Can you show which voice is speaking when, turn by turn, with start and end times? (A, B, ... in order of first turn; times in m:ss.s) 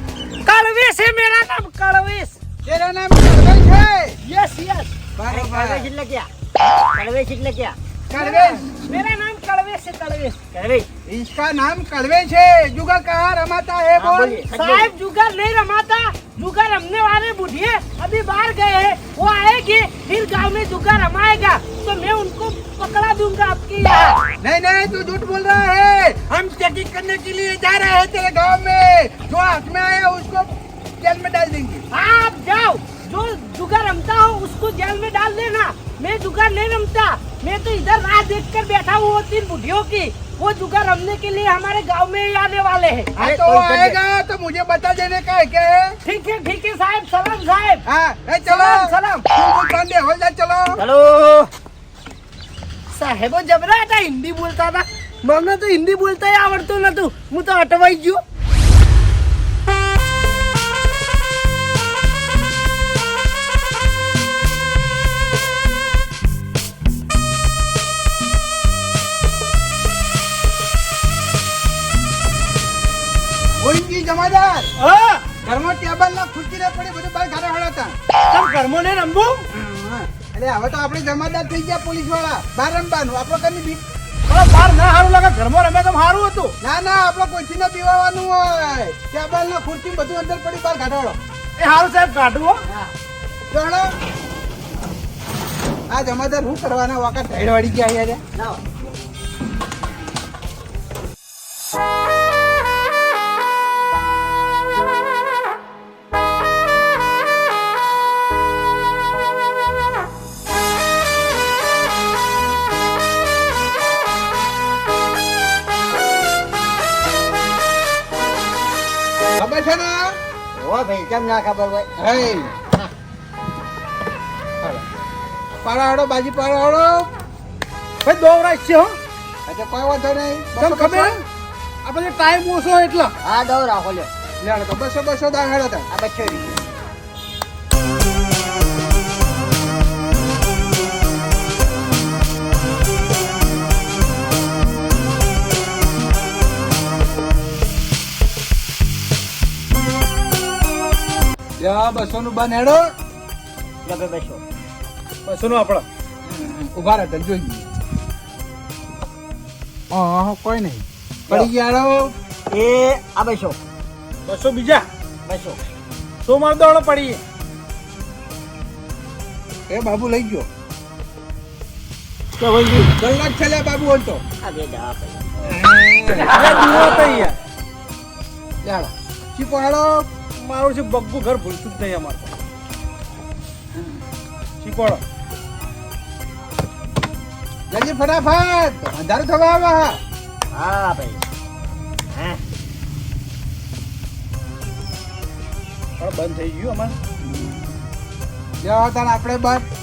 0:00.4-0:02.4 A
0:02.6-0:04.2 B
0:04.2-0:04.9 A
0:05.2-0:05.9 B
0:05.3-0:07.8 C
0:08.1-0:10.4 A
0:08.1-0:08.6 B
0:10.5-0:10.9 C
0:11.1-0:14.4 B
0:14.0-0:14.9 C
0:14.5-0:24.2 A
0:24.4-0:31.8 B
0:31.9-0:43.2 A
0:43.2-0:44.0 C
0:43.2-0:46.0 B
0:46.0-0:47.8 A
0:47.9-0:50.8 B
0:48.5-0:49.3 A
0:50.8-0:51.5 C
0:52.9-0:58.2 A
1:13.6-1:14.7 B
1:14.8-1:15.2 D
1:15.4-1:18.0 B
1:18.3-1:19.4 D
1:19.5-1:23.8 B
1:24.3-1:26.5 D
1:26.6-1:31.2 B
1:31.6-1:32.6 D
1:33.5-1:33.9 B
1:35.9-1:38.2 B
1:38.4-1:38.6 C
1:59.4-2:00.2 B
2:00.6-2:01.9 C
2:02.0-2:02.5 B
2:05.6-2:07.1 B
2:08.0-2:08.9 D
2:09.5-2:11.2 B
2:10.6-2:11.2 D
2:11.8-2:13.1 D
2:13.2-2:14.1 C
2:14.4-2:15.9 B
2:15.9-2:16.7 C
2:31.6-2:32.8 B
2:33.8-2:34.4 C
2:35.2-2:35.8 D
2:36.3-2:37.7 B
2:39.9-2:42.1 B
2:42.5-2:43.6 C
2:44.3-2:44.9 D
2:45.3-2:45.6 C
2:46.2-2:47.2 D
2:49.7-2:50.5 B
2:52.4-2:52.8 C
2:52.9-2:54.2 B
2:54.4-2:55.4 C
2:56.2-2:57.4 D
2:58.6-3:00.1 B
3:00.4-3:02.4 D
3:04.6-3:05.0 D
3:07.7-3:10.0 B
3:10.5-3:11.2 C
3:12.1-3:12.4 C
3:16.0-3:17.0 D
3:18.6-3:19.6 B